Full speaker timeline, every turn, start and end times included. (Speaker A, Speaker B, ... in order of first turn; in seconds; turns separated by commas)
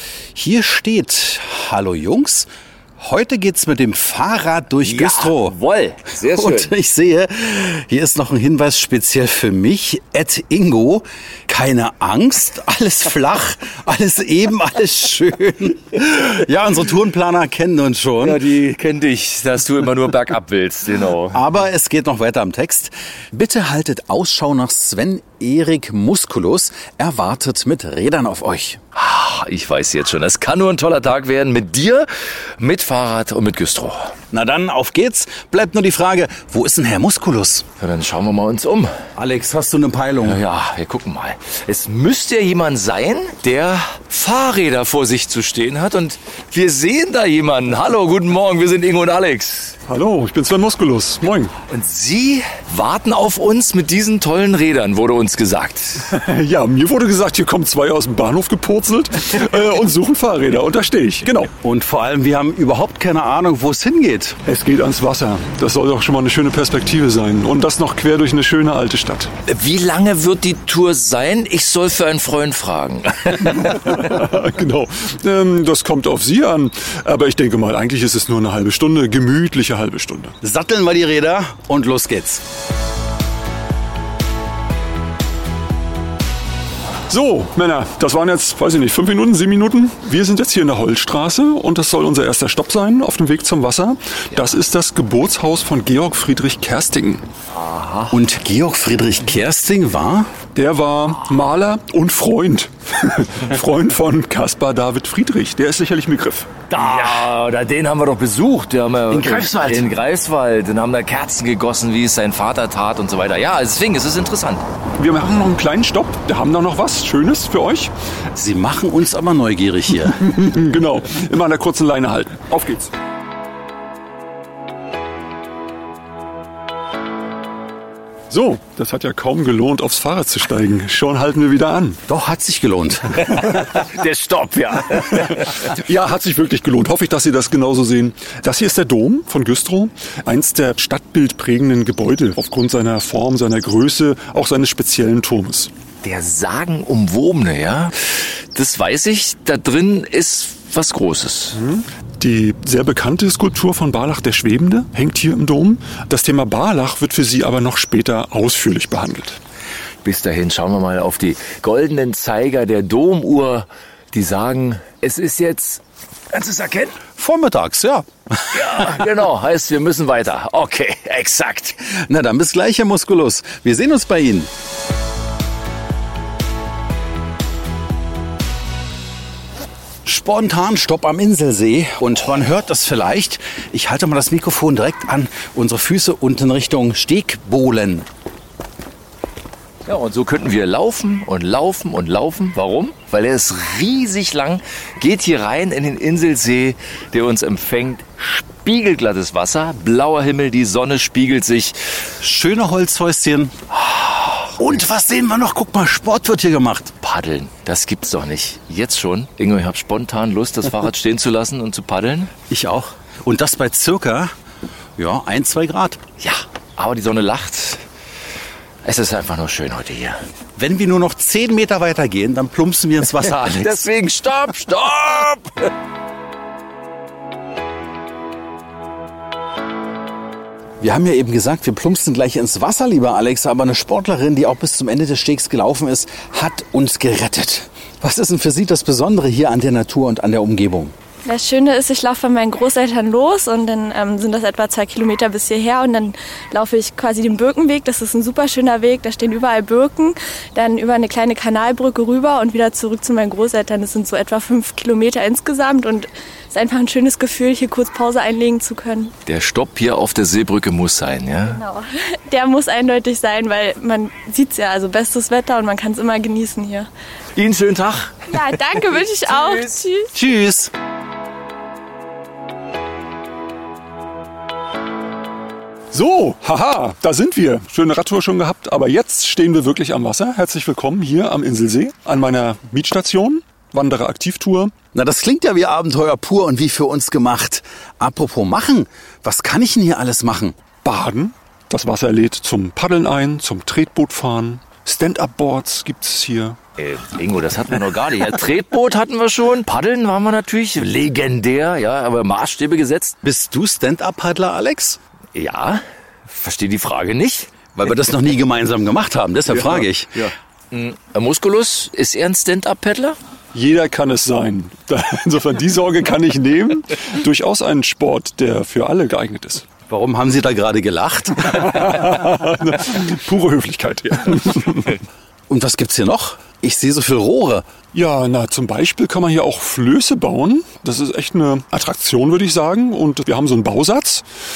Speaker A: 0.3-5.6, Speaker B: 4.8-6.7, Speaker A: 6.2-18.4, Speaker B: 18.2-21.4, Speaker A: 21.3-28.8, Speaker B: 28.9-32.1, Speaker B: 32.6-34.1, Speaker A: 34.3-37.6, Speaker B: 37.8-38.9, Speaker A: 39.1-40.4, Speaker B: 40.2-49.8, Speaker C: 49.9-51.5, Speaker B: 51.7-56.0, Speaker C: 56.1-61.5, Speaker A: 61.6-64.4, Speaker C: 64.5-69.3, Speaker B: 69.5-73.7, Speaker C: 73.7-80.3, Speaker A: 80.4-82.4, Speaker C: 87.1-97.2, Speaker B: 97.5-98.2, Speaker A: 98.1-100.3, Speaker C: 100.5-106.5, Speaker B: 106.7-114.6, Speaker A: 106.8-107.2, Speaker A: 109.1-109.9, Speaker C: 115.0-117.9, Speaker A: 118.3-120.2, Speaker C: 120.3-122.9, Speaker C: 128.3-132.0, Speaker A: 132.1-133.2, Speaker B: 133.5-135.6, Speaker C: 135.7-145.7, Speaker B: 146.0-151.6, Speaker C: 151.5-159.4, Speaker B: 160.0-165.8, Speaker B: 166.3-167.0, Speaker A: 167.2-169.0, Speaker B: 168.5-171.8, Speaker A: 171.9-174.5, Speaker A: 180.0-188.1, Speaker B: 189.8-201.8, Speaker A: 202.2-203.5, Speaker B: 203.9-204.4, Speaker A: 204.6-206.9, Speaker B: 207.0-212.3, Speaker A: 212.5-214.3, Speaker A: 214.9-216.0, Speaker B: 216.2-217.8, Speaker B: 218.8-220.2, Speaker A: 220.6-223.8, Speaker B: 223.2-225.7, Speaker A: 230.8-240.9, Speaker D: 241.2-259.1, Speaker B: 259.2-261.6, Speaker D: 261.5-266.9, Speaker B: 267.4-269.8, Speaker D: 268.3-270.1, Speaker A: 270.1-270.7, Speaker C: 275.9-284.7, Speaker A: 284.9-290.6, Speaker C: 290.8-296.6, Speaker B: 296.8-303.2, Speaker A: 303.2-305.0, Speaker B: 305.3-307.5, Speaker A: 307.7-310.2, Speaker B: 309.6-313.2, Speaker C: 313.5-319.6, Speaker A: 319.9-321.9, Speaker C: 321.6-325.0, Speaker A: 325.5-327.6, Speaker C: 327.9-334.2